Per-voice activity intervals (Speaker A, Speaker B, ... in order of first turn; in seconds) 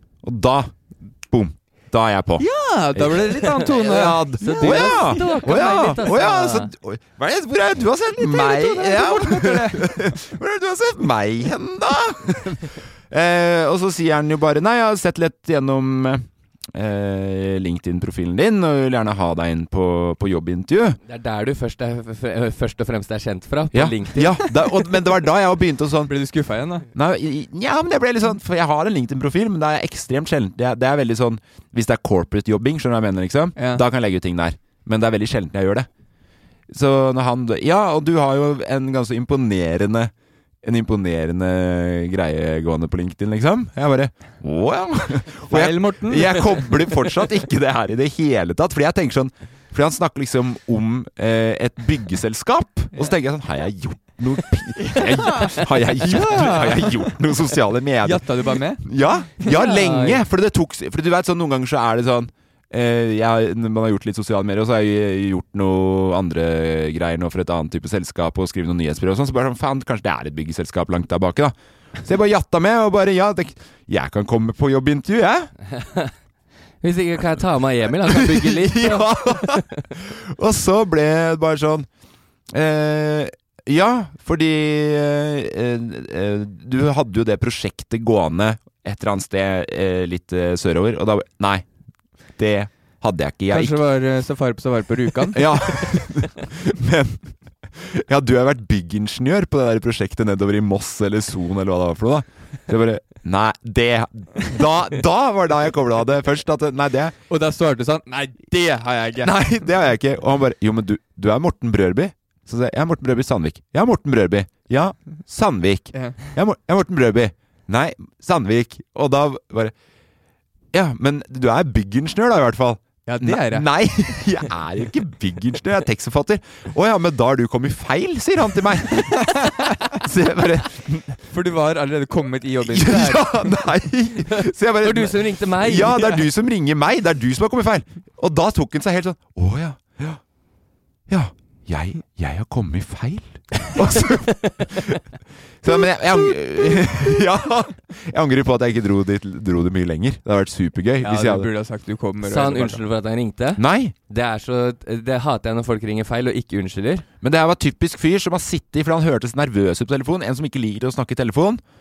Speaker A: 0.2-21.0, 23.7-35.9, 36.7-75.6, 78.1-81.9, 82.5-93.8, 95.3-107.2, 109.2-119.8, 120.7-129.5, 130.0-131.2, 132.6-140.4, 141.1-145.0, 145.6-151.5, 153.6-153.9, 157.2-161.6
Speaker B: 2.4-6.1, 8.2-10.0, 26.1-26.9, 33.6-33.8, 45.5-46.9, 52.9-53.2, 54.8-55.2, 56.1-57.2, 58.0-59.5, 93.5-95.7, 107.3-109.7, 115.9-116.2, 123.0-124.5, 129.2-129.7, 131.3-133.4, 135.8-136.2, 151.0-152.8
Speaker C: 4.4-6.7, 21.1-24.4, 59.5-60.2, 76.8-79.6, 134.8-135.9, 152.2-157.1